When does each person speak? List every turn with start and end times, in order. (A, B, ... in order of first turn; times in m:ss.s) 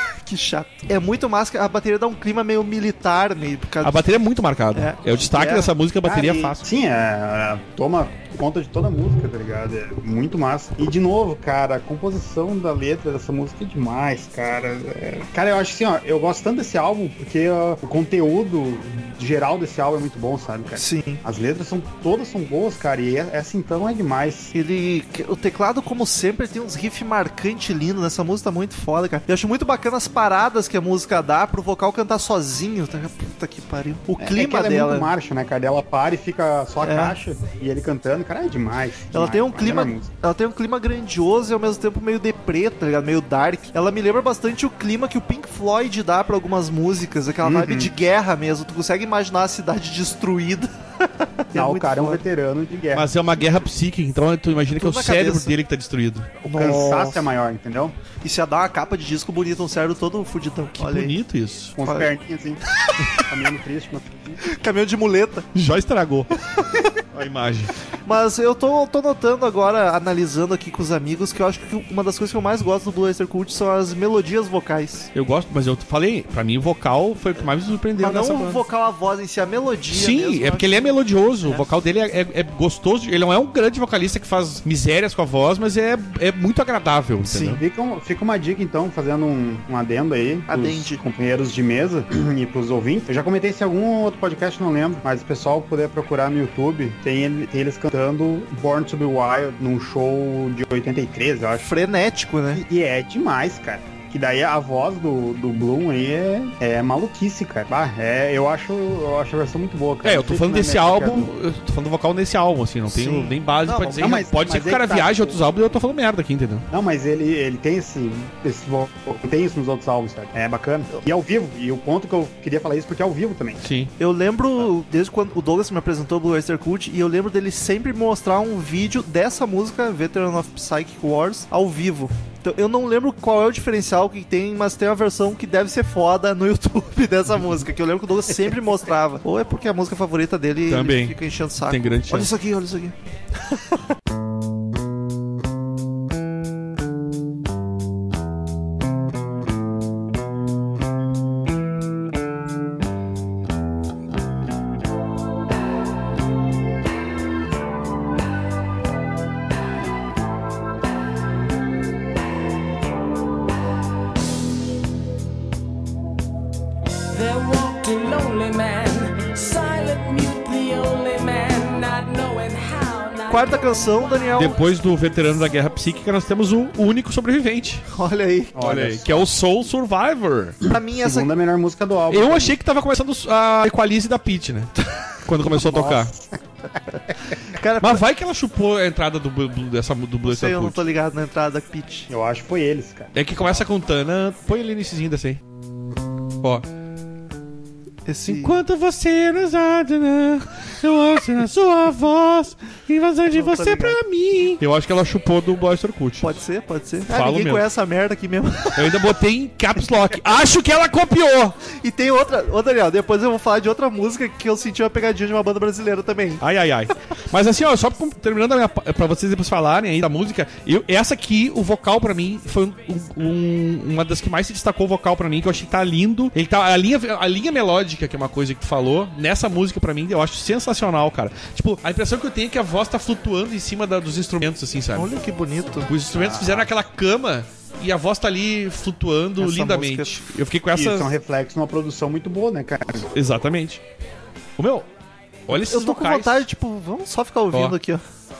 0:00.2-0:04.2 A
0:03.8-0:06.6 B
0:04.7-0:05.7 A
0:06.0-0:24.5 C
0:20.8-0:21.2 A
0:24.5-0:35.1 A
0:34.2-0:40.1 C
0:36.8-0:37.2 A
0:39.1-0:52.2 A
0:47.4-0:47.9 C
0:51.5-0:53.2 C
0:52.9-0:56.4 B
0:54.7-0:55.6 A
0:56.4-0:57.3 A
0:56.5-0:57.9 C
0:58.2-1:01.1 A
1:00.8-1:01.8 B
1:01.8-1:02.6 C
1:01.8-1:02.1 A
1:03.1-1:04.4 C
1:04.4-1:05.5 A
1:05.5-1:06.4 B
1:07.1-1:07.7 B
1:08.0-1:15.1 A
1:15.1-1:18.6 B
1:18.0-1:21.7 A
1:19.9-1:27.6 B
1:27.2-1:27.6 A
1:27.6-1:41.7 C
1:30.5-1:31.0 A
1:41.6-1:42.6 A
1:42.5-1:51.3 C
1:50.0-1:56.6 B
1:52.9-1:54.2 A
1:54.0-1:55.4 C
1:56.7-2:03.6 C
2:03.6-2:03.9 B
2:04.0-2:22.9 A
2:20.7-2:22.3 B
2:47.1-2:54.7 D
2:53.3-2:54.6 A
2:54.4-2:57.8 B
2:57.9-2:58.7 A
2:58.5-2:59.3 C
2:58.6-3:00.6 B
3:00.6-3:01.3 A
3:00.7-3:02.6 C
3:02.1-3:06.1 B
3:05.5-3:06.4 C
3:07.3-3:08.0 A
3:07.8-3:10.8 B
3:10.2-3:12.1 A
3:12.1-3:13.6 C
3:13.1-3:15.4 B
3:18.0-3:18.6 A
3:18.2-3:26.3 B
3:23.3-3:24.0 A
3:26.2-3:29.0 A
3:27.1-3:27.6 B
3:28.7-3:31.6 B
3:31.7-3:36.4 A
3:36.4-3:55.1 B
3:54.9-3:55.9 A
3:55.9-4:01.1 B
3:56.1-3:56.7 C
3:59.4-4:00.2 A
4:00.7-4:03.1 C
4:03.1-4:03.8 B
4:04.6-4:04.9 B
4:05.5-4:06.4 B
4:05.5-4:08.0 A